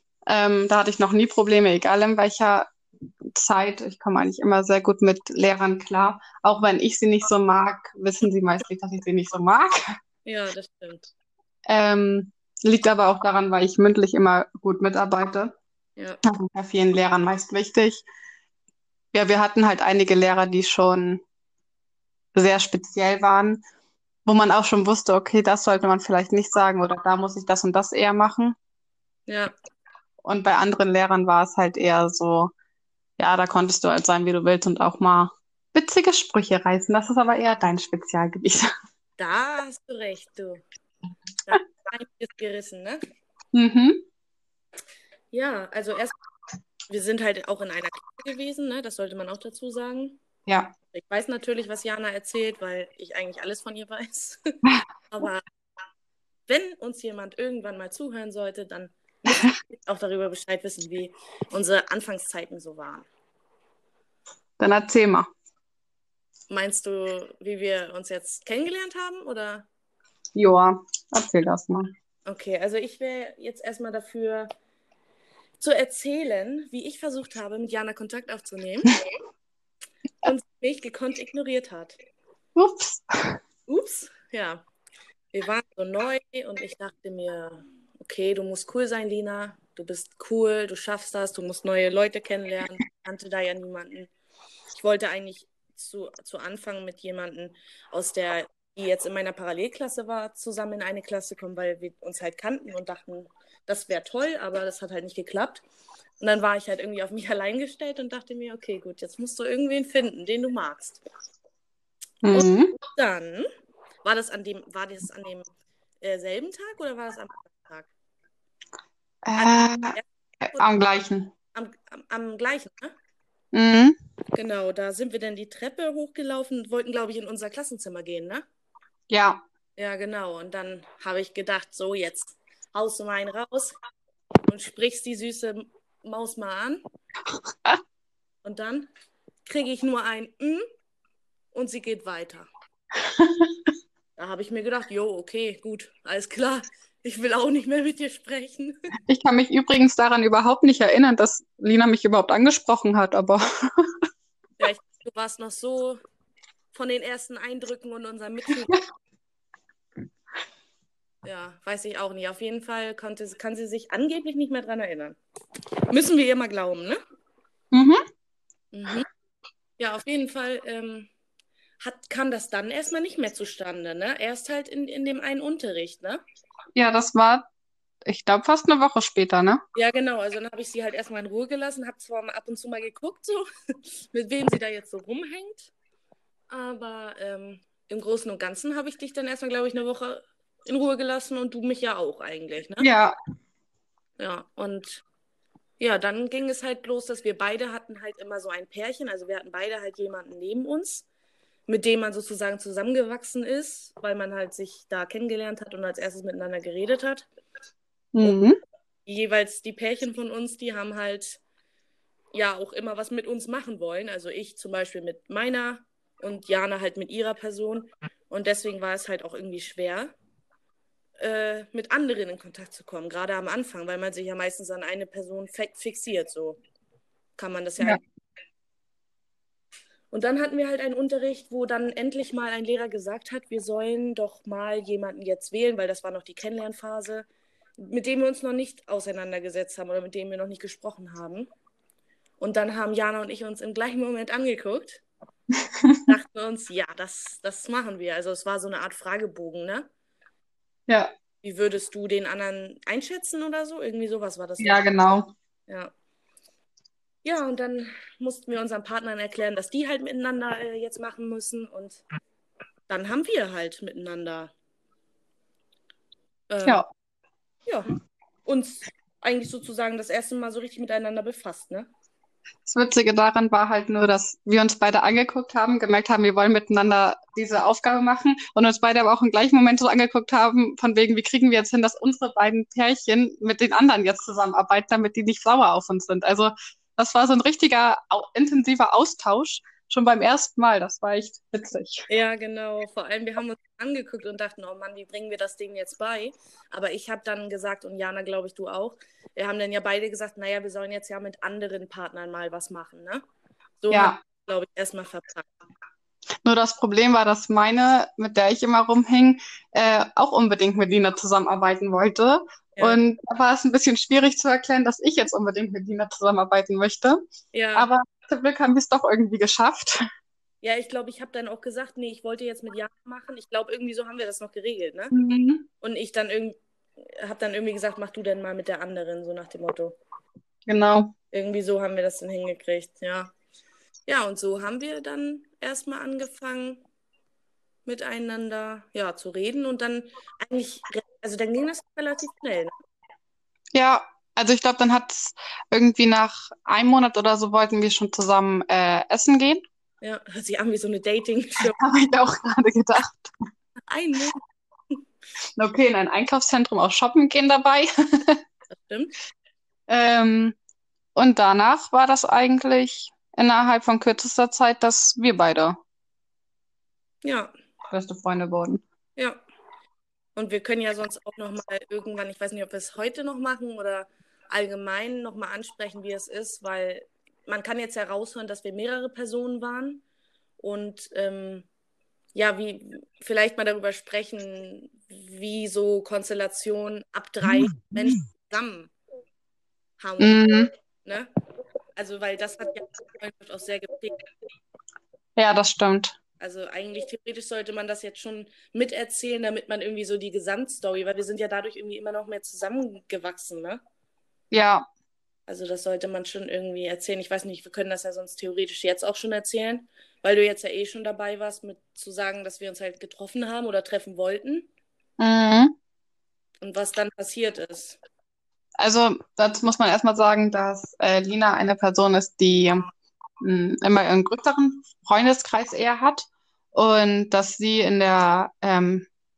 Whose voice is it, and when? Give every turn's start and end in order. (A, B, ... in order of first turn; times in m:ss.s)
0:00.3-0:02.7 A
0:03.3-0:09.8 A
0:10.3-0:11.1 B
0:11.7-0:15.6 A
0:16.2-0:18.0 A
0:19.1-0:21.2 A
0:22.4-0:23.6 A
0:24.3-0:28.6 A
0:29.3-0:29.5 B
0:30.2-0:32.5 A
0:33.2-0:38.7 A
0:39.2-0:40.6 B
0:41.5-0:43.0 B
0:43.5-0:44.0 A
0:45.3-0:46.1 B
0:46.9-0:50.2 B
0:50.5-0:50.7 A
0:50.9-0:54.5 B
0:55.1-0:55.4 B
0:56.5-1:03.1 B
1:04.6-1:05.3 A
1:06.5-1:09.7 B
1:10.4-1:11.9 A
1:12.3-1:14.5 B
1:15.6-1:18.9 B
1:20.2-1:22.0 B
1:22.6-1:23.4 A
1:23.7-1:24.6 B
1:25.3-1:34.1 B
1:34.7-1:45.6 B
1:46.2-1:51.0 B
1:52.2-1:52.8 A
1:52.3-1:53.5 B
1:54.0-1:55.5 B
1:56.0-1:57.9 B
1:59.3-2:01.3 A
1:59.4-2:00.7 B
2:01.5-2:03.0 B
2:03.5-2:04.0 A
2:04.3-2:08.4 B
2:09.1-2:09.4 A
2:09.8-2:13.8 B
2:14.5-2:16.8 B
2:18.4-2:18.9 B
2:19.4-2:20.6 B
2:21.5-2:22.5 B
2:23.2-2:23.5 A
2:24.2-2:28.8 B
2:29.1-2:33.9 A
2:34.6-2:36.0 B
2:36.7-2:38.8 B
2:41.2-2:45.2 B
2:45.9-2:47.0 B
2:47.7-2:48.0 A
2:48.7-2:49.1 B
2:49.8-2:51.1 B
2:51.8-2:56.2 B
2:56.8-2:57.4 A
2:58.1-2:59.6 A
2:59.8-3:03.4 B
3:04.1-3:05.7 B
3:06.5-3:12.9 B
3:12.8-3:13.2 A
3:14.2-3:15.0 B
3:15.8-3:21.1 B
3:21.7-3:27.3 B
3:28.2-3:28.6 A
3:29.1-3:31.4 B
3:32.3-3:40.1 B
3:41.2-3:46.6 B
3:47.4-3:48.0 B
3:50.1-3:57.3 B
3:57.8-4:01.5 B
4:02.4-4:05.0 B
4:05.8-4:06.1 A
4:06.1-4:09.9 B
4:11.4-4:15.9 B
4:14.6-4:15.3 A
4:17.2-4:22.0 B
4:22.9-4:24.5 B
4:26.5-4:26.8 B
4:27.7-4:27.9 B
4:28.4-4:31.9 B
4:32.7-4:52.1 A
4:52.1-5:03.2 B
5:03.8-5:05.5 B
5:03.9-5:04.2 A
5:06.4-5:17.2 A
5:17.5-5:17.9 B
5:17.8-5:20.0 A
5:20.6-5:25.2 B
5:25.1-5:25.6 A
5:25.8-5:30.0 B
5:30.7-5:31.1 A
5:31.3-5:33.3 B
5:34.1-5:36.8 B
5:37.9-5:42.7 B
5:43.7-5:49.6 A
5:50.0-5:51.8 B
5:51.6-5:53.3 A
5:53.9-5:54.4 B
5:55.6-5:58.4 A
5:58.8-5:59.2 B
5:59.9-6:00.6 A
6:01.2-6:05.8 A
6:07.2-6:07.5 B
6:07.9-6:08.8 A
6:09.2-6:09.4 B
6:10.4-6:20.0 B
6:20.6-6:21.7 B
6:22.3-6:28.9 B
6:30.0-6:31.3 B
6:30.2-6:30.7 A
6:32.0-6:34.2 B
6:35.4-6:36.2 A
6:36.4-6:43.8 B
6:44.5-6:44.9 A
6:45.5-6:54.7 B
6:55.2-6:55.8 A
6:56.6-6:58.0 B
6:58.8-7:02.9 A
7:03.4-7:09.1 A